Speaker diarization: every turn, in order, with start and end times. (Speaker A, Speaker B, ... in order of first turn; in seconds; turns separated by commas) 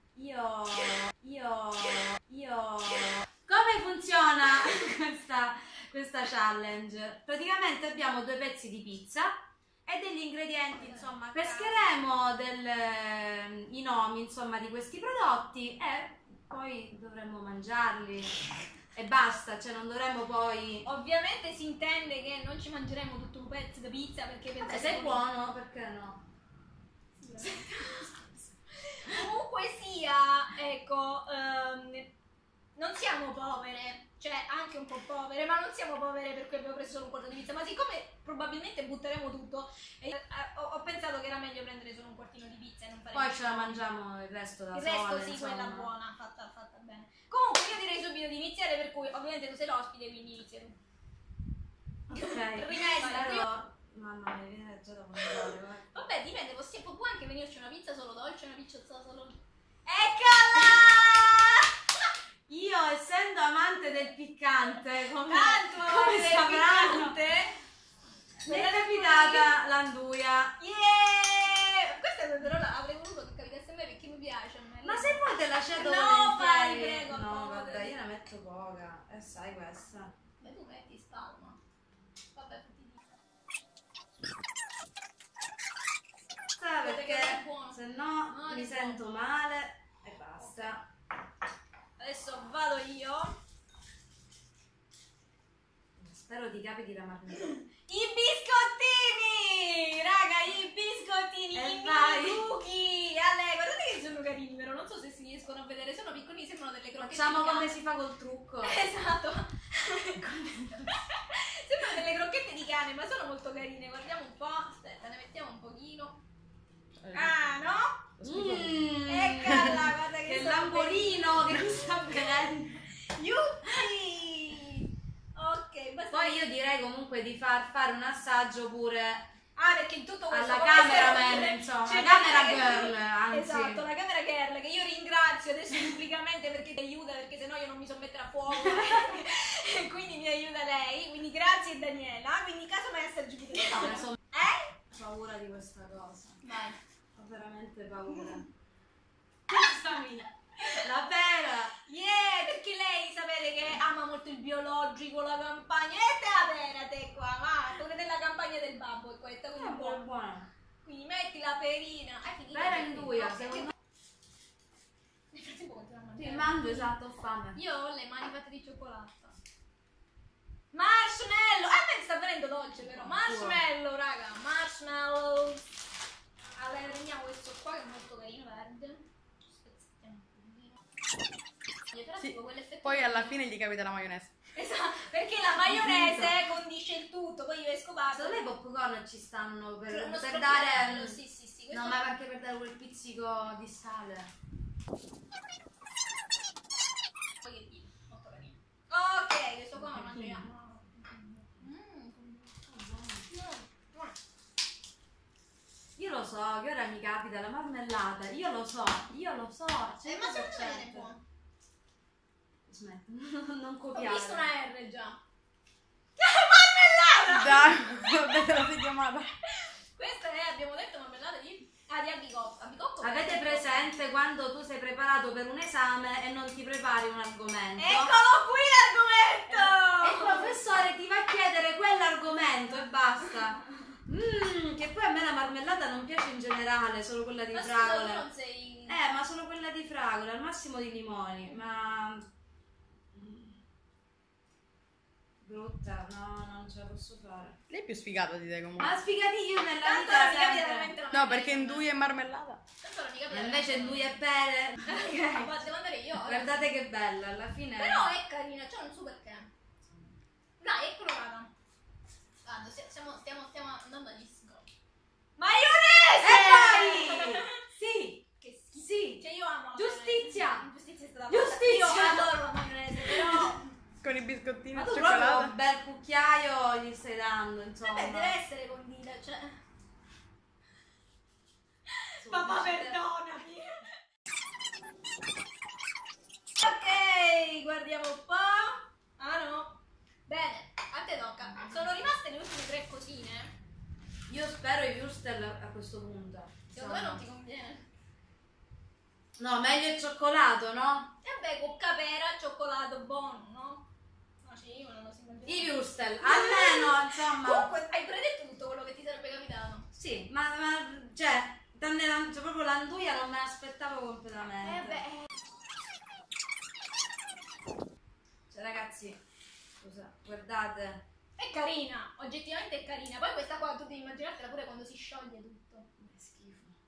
Speaker A: 0.1-18.4, Speaker B: 10.7-11.8, Speaker A: 18.9-20.9, Speaker B: 20.8-25.2, Speaker A: 24.6-26.2, Speaker B: 27.2-32.1, Speaker B: 32.8-43.8, Speaker A: 43.1-45.9, Speaker B: 44.7-50.8, Speaker A: 52.1-56.0, Speaker B: 52.1-53.4, Speaker B: 55.2-61.7, Speaker A: 62.5-67.2, Speaker B: 65.2-67.5, Speaker A: 68.4-70.5, Speaker B: 68.5-69.5, Speaker B: 70.6-75.2, Speaker A: 74.8-80.1, Speaker B: 75.7-77.9, Speaker B: 80.4-81.6, Speaker B: 82.3-83.0, Speaker A: 86.5-90.8, Speaker B: 86.8-89.0, Speaker B: 90.4-90.8, Speaker B: 92.0-93.3, Speaker A: 96.0-97.5, Speaker B: 97.6-107.7, Speaker A: 101.5-102.5, Speaker A: 107.0-108.8, Speaker B: 108.6-116.2, Speaker C: 117.0-117.3, Speaker B: 117.1-118.0, Speaker C: 118.2-118.9, Speaker A: 118.2-122.9, Speaker B: 119.0-122.5, Speaker B: 123.0-126.5, Speaker A: 126.1-129.2, Speaker B: 129.6-144.8, Speaker A: 130.3-133.8, Speaker A: 143.7-144.2, Speaker A: 144.9-146.4, Speaker B: 146.4-146.8, Speaker A: 147.2-148.4, Speaker A: 149.5-151.7, Speaker B: 151.8-160.1, Speaker A: 159.5-160.5, Speaker B: 160.8-163.7, Speaker A: 162.5-163.7, Speaker B: 165.3-166.9, Speaker A: 166.2-167.6, Speaker B: 167.5-169.3, Speaker B: 170.7-175.7, Speaker A: 172.8-173.6, Speaker B: 176.6-180.8, Speaker B: 181.9-183.4, Speaker C: 182.2-184.3, Speaker B: 184.5-188.4, Speaker A: 185.6-186.3, Speaker A: 188.1-191.2, Speaker B: 189.9-192.1, Speaker A: 191.7-194.3, Speaker B: 197.4-202.5, Speaker A: 202.7-203.3, Speaker B: 203.3-204.2, Speaker A: 206.0-211.1, Speaker B: 210.0-211.2, Speaker A: 212.7-214.5, Speaker B: 213.9-215.2, Speaker B: 216.2-217.9, Speaker C: 217.2-219.3, Speaker B: 219.9-223.8, Speaker A: 223.0-228.2, Speaker B: 227.8-230.6, Speaker A: 229.5-238.2, Speaker B: 237.5-239.0, Speaker A: 238.9-242.2, Speaker A: 243.1-243.6, Speaker A: 245.4-247.6, Speaker C: 247.7-248.9, Speaker A: 248.8-250.9, Speaker B: 249.8-251.9, Speaker C: 251.1-252.6, Speaker B: 252.8-254.1, Speaker A: 253.3-255.6, Speaker B: 254.8-256.6, Speaker A: 256.2-258.1, Speaker B: 257.8-259.5, Speaker B: 260.6-261.5, Speaker B: 262.4-264.6, Speaker B: 265.4-267.6, Speaker A: 266.2-270.7, Speaker B: 268.4-273.6, Speaker A: 271.3-272.3, Speaker A: 273.0-273.5, Speaker C: 274.0-275.5, Speaker A: 274.7-278.3, Speaker B: 277.8-279.6, Speaker B: 281.9-283.9, Speaker A: 282.2-283.0, Speaker B: 286.6-293.5, Speaker A: 294.3-297.2, Speaker B: 296.7-297.9, Speaker A: 299.4-301.1, Speaker B: 301.2-303.9, Speaker B: 304.4-309.9, Speaker A: 305.4-307.7, Speaker A: 309.9-315.0, Speaker B: 314.6-315.3, Speaker A: 318.5-319.2, Speaker A: 319.8-321.0, Speaker B: 321.4-325.9, Speaker A: 326.0-326.7